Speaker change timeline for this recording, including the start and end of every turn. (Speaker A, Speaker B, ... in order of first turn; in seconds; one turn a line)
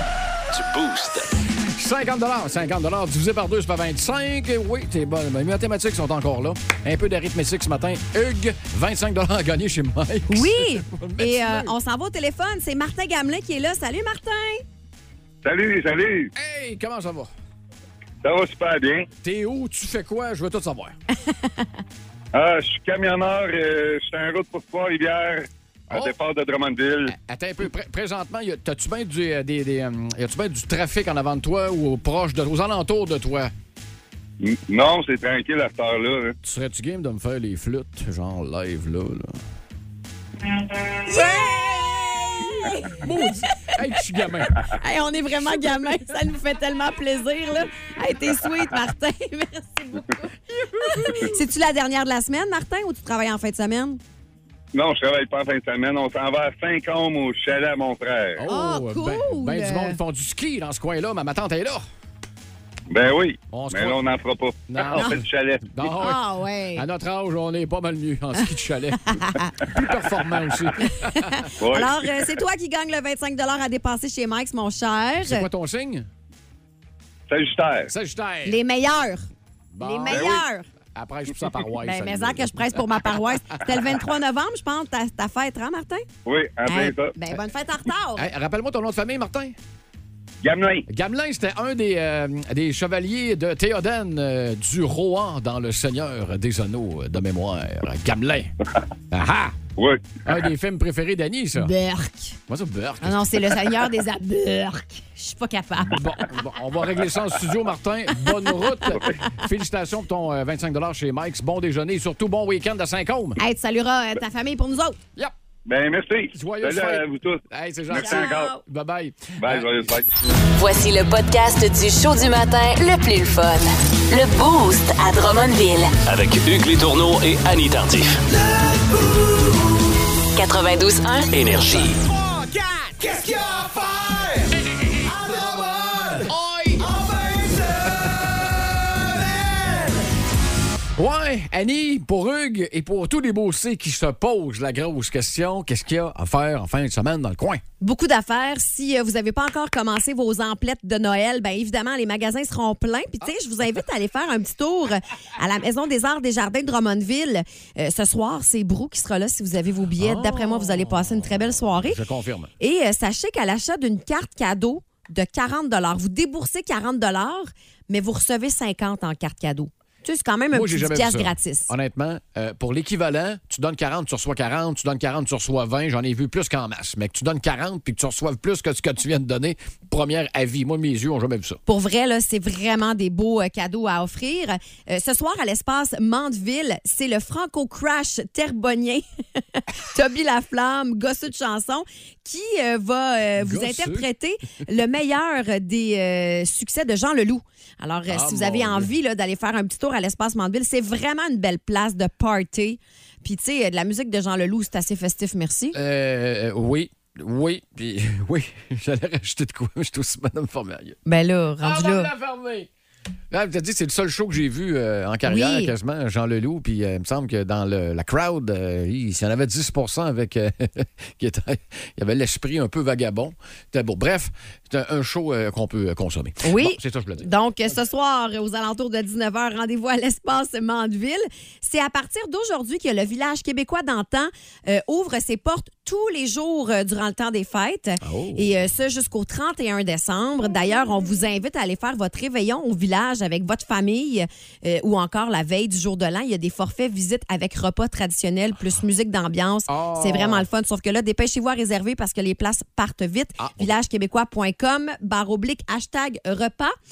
Speaker A: 0.5-1.4
Speaker B: 1.6-11.8
Speaker C: 10.3-14.6
Speaker D: 15.4-16.3
Speaker B: 16.4-17.3
Speaker D: 18.2-19.1
Speaker B: 19.2-21.0
Speaker D: 22.3-27.1
Speaker B: 27.1-33.5
Speaker D: 34.4-36.4
Speaker B: 36.4-39.4
Speaker C: 41.0-43.8
Speaker B: 42.9-44.6
Speaker C: 44.6-54.0
Speaker B: 50.7-51.3
Speaker D: 54.7-58.4
Speaker B: 58.4-61.8
Speaker C: 58.5-60.0
Speaker D: 62.9-65.7
Speaker B: 63.5-64.0
Speaker B: 64.7-66.2
Speaker C: 65.0-65.2
Speaker C: 66.0-66.9
Speaker B: 66.8-71.5
Speaker C: 69.1-69.5
Speaker C: 70.8-75.5
Speaker D: 71.6-71.9
Speaker B: 75.2-76.1
Speaker D: 77.3-77.9
Speaker B: 77.9-78.6
Speaker C: 78.5-79.3
Speaker B: 79.7-83.9
Speaker C: 79.8-80.7
Speaker D: 80.1-80.4
Speaker C: 81.8-86.1
Speaker D: 86.3-87.1
Speaker C: 86.7-88.3
Speaker B: 88.2-89.6
Speaker D: 90.4-90.9
Speaker B: 90.9-98.5
Speaker B: 99.1-99.6
Speaker D: 99.8-100.4
Speaker B: 100.2-101.7
Speaker C: 101.6-102.4
Speaker B: 102.5-103.7
Speaker C: 103.0-106.2
Speaker B: 105.8-113.4
Speaker C: 108.9-109.2
Speaker C: 113.4-115.0
Speaker D: 115.7-118.5
Speaker B: 116.3-119.9
Speaker C: 117.9-118.6
Speaker D: 119.4-120.1
Speaker E: 120.5-125.9
Speaker A: 126.0-128.3
Speaker E: 130.4-131.3
Speaker A: 131.3-132.0
Speaker B: 132.1-134.5
Speaker B: 135.1-138.5
Speaker B: 141.0-147.6
Speaker C: 147.8-162.0
Speaker B: 160.0-162.5
Speaker C: 162.6-171.7
Speaker B: 170.5-181.6
Speaker C: 181.7-205.8
Speaker B: 193.4-194.1
Speaker B: 198.1-198.9
Speaker B: 205.7-211.0
Speaker C: 211.1-212.1
Speaker B: 211.6-212.7
Speaker B: 213.3-227.3
Speaker C: 215.2-215.7
Speaker C: 226.4-256.7
Speaker B: 238.0-238.5
Speaker B: 249.7-250.5
Speaker B: 253.4-253.8